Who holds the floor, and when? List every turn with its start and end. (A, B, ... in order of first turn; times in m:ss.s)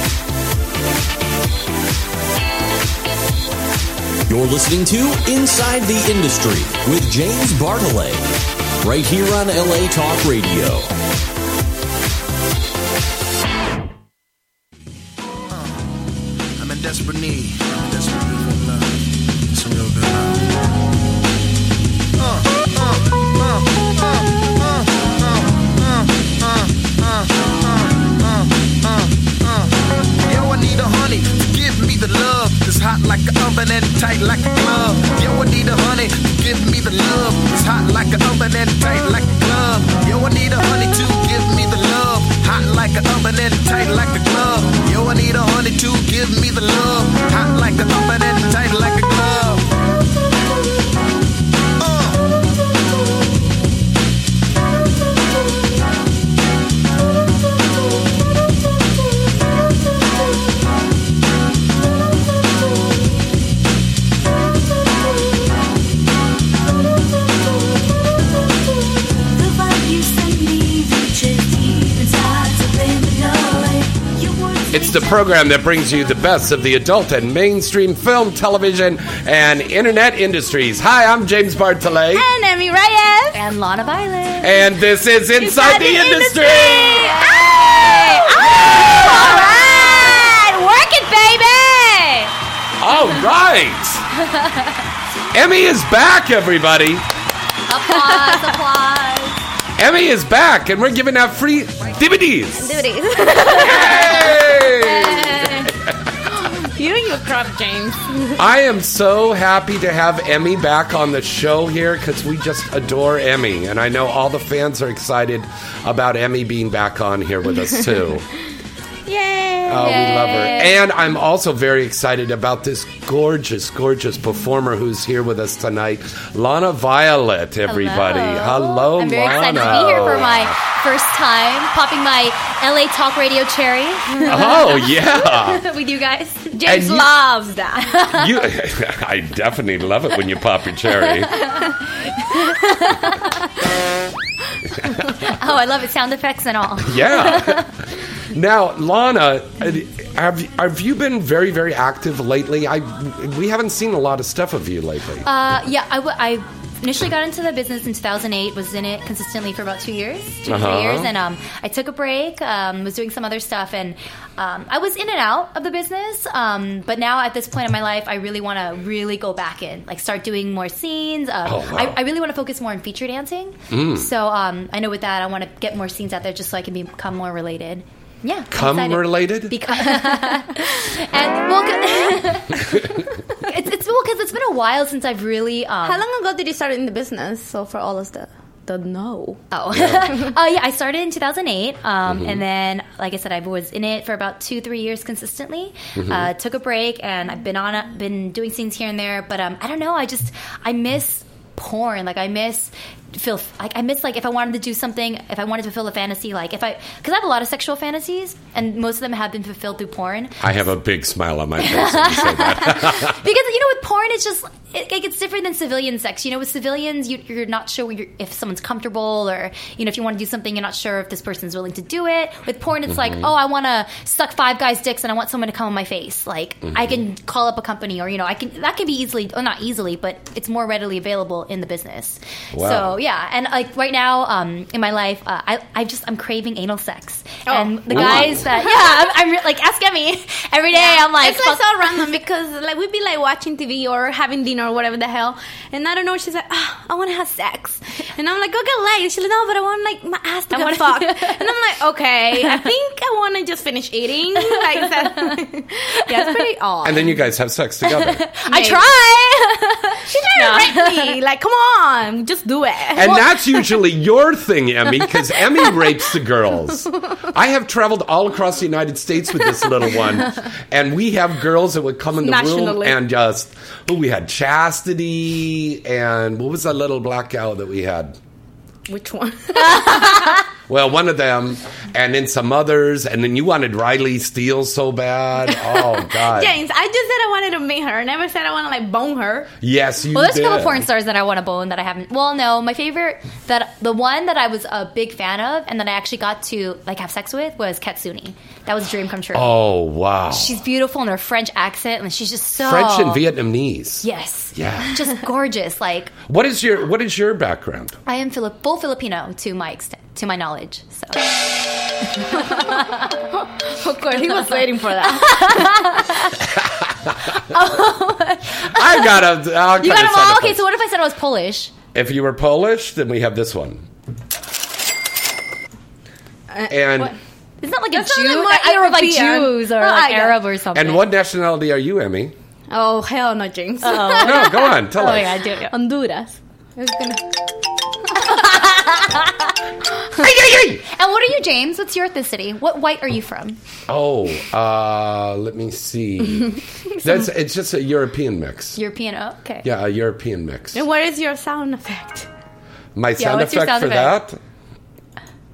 0:04.3-0:08.3 A
0:08.8-0:10.9 A
0:15.5-0:15.8 B
0:16.6-0:20.7 B
0:22.2-0:49.7 B
0:51.8-0:52.2 B
1:09.3-1:15.3 C
1:14.7-1:22.2 D
1:22.1-1:23.4 E
1:23.3-1:24.7 F
1:24.4-1:27.1 D
1:25.4-1:28.0 F
1:26.6-1:32.3 E
1:28.4-1:29.3 D
1:32.8-1:34.0 D
1:35.3-1:37.1 D
1:37.7-1:39.4 F
1:37.9-1:38.5 E
1:39.8-1:45.9 D
1:42.5-1:48.4 E
1:48.4-1:58.3 D
1:59.1-2:00.7 E
1:59.6-2:10.6 D
1:59.8-2:00.8 F
2:07.6-2:16.6 F
2:14.2-2:15.6 D
2:16.5-2:18.0 E
2:16.7-2:17.1 D
2:17.9-2:18.3 F
2:18.1-2:21.4 D
2:22.3-2:23.3 F
2:25.2-2:27.7 F
2:26.8-2:27.7 D
2:28.3-2:35.3 D
2:35.2-3:06.0 F
2:40.4-2:41.1 D
2:51.4-2:52.0 D
2:53.7-2:54.1 D
2:58.5-2:59.6 D
3:05.8-3:09.4 E
3:09.5-3:30.4 F
3:09.7-3:10.1 D
3:12.0-3:12.4 D
3:15.9-3:16.3 D
3:30.4-3:33.2 D
3:31.6-4:02.1 F
3:42.9-3:43.3 D
3:46.6-3:47.0 D
3:52.5-3:53.0 D
3:57.5-3:59.1 E
3:57.9-3:58.4 D
4:00.7-4:17.1 E
4:10.5-4:11.4 F
4:12.3-4:12.7 F
4:14.8-4:15.3 F
4:16.1-4:16.5 F
4:16.8-4:18.2 D
4:17.8-4:21.2 F
4:18.5-4:18.9 E
4:20.0-4:23.2 E
4:22.9-4:38.2 D
4:32.2-4:33.0 E
4:38.9-4:40.4 E
4:40.7-4:46.6 D
4:45.5-4:49.5 E
4:49.6-4:50.8 D
4:50.1-4:59.6 F
4:59.3-5:00.6 D
5:00.3-5:03.2 F
5:02.6-5:05.0 D
5:04.0-5:06.1 F
5:06.3-5:08.0 D
5:08.1-5:11.3 F
5:12.1-5:13.1 F
5:13.6-5:16.0 E
5:15.2-5:16.4 F
5:17.4-5:21.7 F
5:18.7-5:20.6 D
5:21.9-5:23.8 D
5:26.5-5:27.2 E
5:26.7-5:27.2 D
5:27.6-5:31.1 F
5:27.9-5:30.4 E
5:30.7-5:32.3 D
5:32.7-5:34.7 E
5:33.8-5:35.7 F
5:34.2-5:35.4 D
5:35.7-5:37.3 E
5:40.1-5:40.8 D
5:40.9-5:43.6 F
5:43.9-5:48.8 D
5:48.8-5:49.6 F
5:49.6-5:50.8 D
5:50.7-5:52.3 E
5:52.9-5:54.4 D
5:53.2-5:54.2 F